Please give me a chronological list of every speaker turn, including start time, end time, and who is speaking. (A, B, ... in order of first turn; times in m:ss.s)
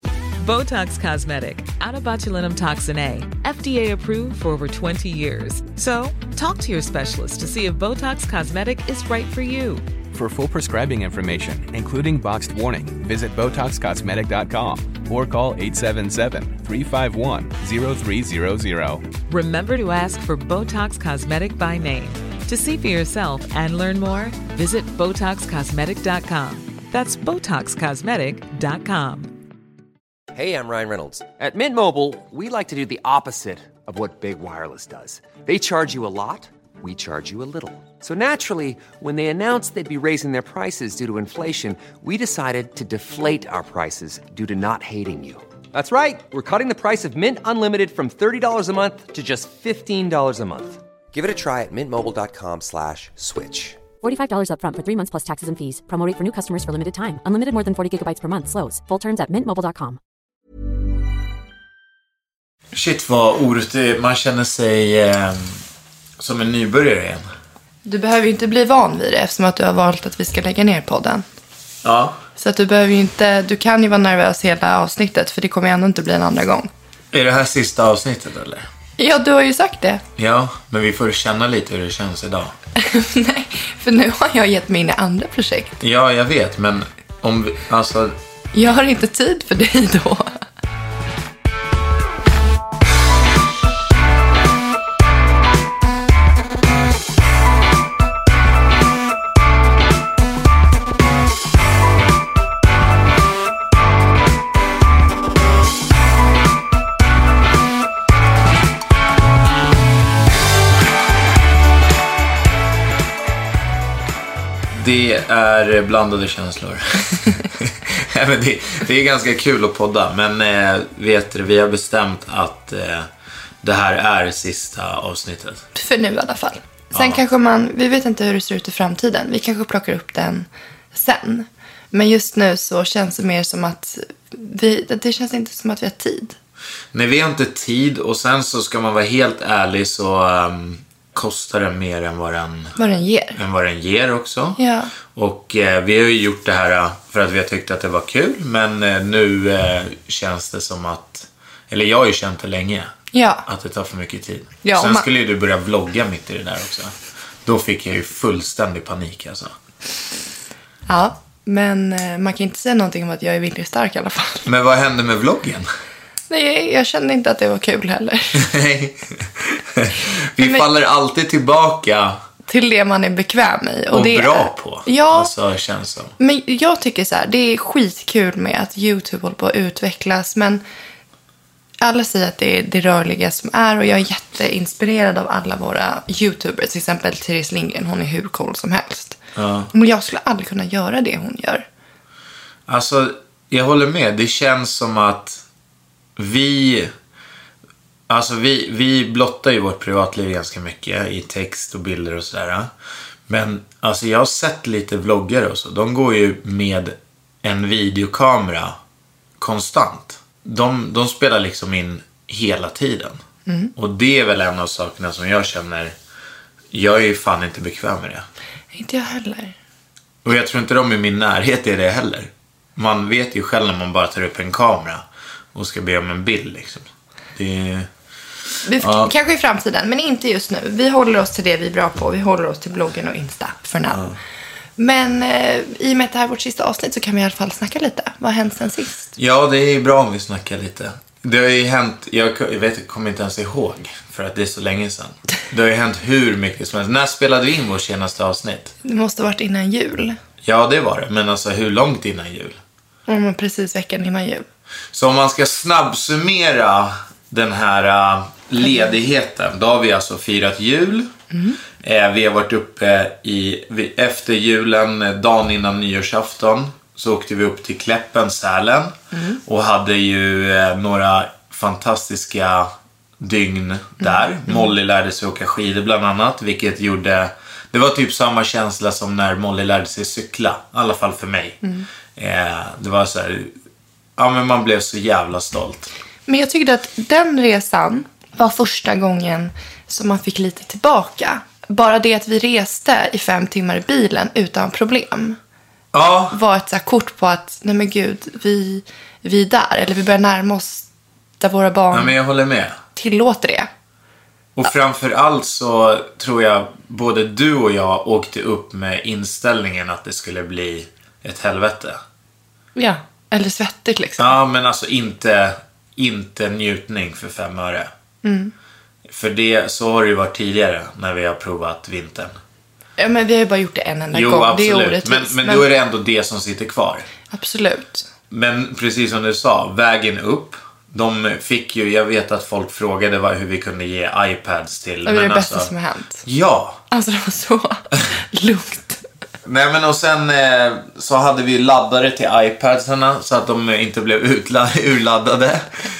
0:00.4-0:09.8 A
0:10.1-0:19.0 B
0:19.3-0:29.3 A
0:30.3-0:53.8 C
0:54.0-1:00.0 D
1:02.7-1:05.5 E
1:06.2-1:07.2 E
1:07.8-1:11.2 F
1:11.8-1:12.2 E
1:12.4-1:16.7 F
1:17.1-1:18.6 E
1:19.0-1:20.0 F
1:20.2-1:22.5 E
1:22.8-1:25.8 F
1:25.8-1:28.2 E
1:28.5-1:30.4 F
1:54.7-2:03.1 E
2:03.6-2:05.6 E
2:05.7-2:16.4 F
2:06.9-2:07.2 E
2:16.9-2:22.8 E
2:22.8-2:23.4 F
2:23.3-2:24.6 E
2:24.6-2:24.9 F
2:25.1-2:32.9 E
2:33.1-2:33.4 F
2:33.4-2:36.9 E
2:34.6-2:35.1 F
2:37.4-2:39.5 E
2:40.9-2:44.5 F
2:44.4-2:45.7 E
2:46.3-2:48.5 F
2:48.3-2:52.2 E
2:50.4-2:50.6 F
2:52.5-2:55.3 F
2:53.9-2:56.1 E
2:56.2-3:00.6 F
3:01.8-3:09.2 F
3:09.4-3:09.7 E
3:09.7-3:11.6 F
3:12.7-3:15.4 E
3:16.2-3:16.9 E
3:18.1-3:22.7 E
3:23.3-3:28.8 E
3:29.4-3:33.2 E
3:33.5-3:33.7 F
3:33.8-3:35.9 E
3:36.7-3:38.2 E
3:38.7-3:39.5 F
3:40.2-3:47.9 E
3:48.6-3:54.1 F
3:48.8-3:49.1 E
3:53.9-3:54.2 E
3:54.8-3:59.1 F
3:59.2-4:08.7 E
4:08.8-4:10.2 F
4:10.4-4:12.6 E
4:13.1-4:14.4 F
4:14.9-4:21.1 E
4:18.6-4:18.9 F
4:21.3-4:21.6 F
4:21.8-4:41.6 E
4:29.1-4:29.4 F
4:34.0-4:34.7 F
4:42.2-4:43.5 E
4:44.2-4:45.9 E
4:46.3-4:55.4 F
4:55.9-4:56.4 E
4:56.3-5:00.9 F
5:01.4-5:02.2 F
5:01.9-5:02.8 E
5:03.0-5:03.7 F
5:04.6-5:12.0 E
5:12.8-5:14.4 F
5:14.2-5:17.9 E
5:18.2-5:18.5 F
5:19.1-5:22.3 E
5:23.0-5:25.6 F
5:24.1-5:27.1 E
5:27.3-5:28.1 F
5:28.3-5:35.7 E
5:35.0-5:36.2 F
5:36.2-5:36.8 E
5:36.9-5:39.0 F
5:39.4-5:45.7 E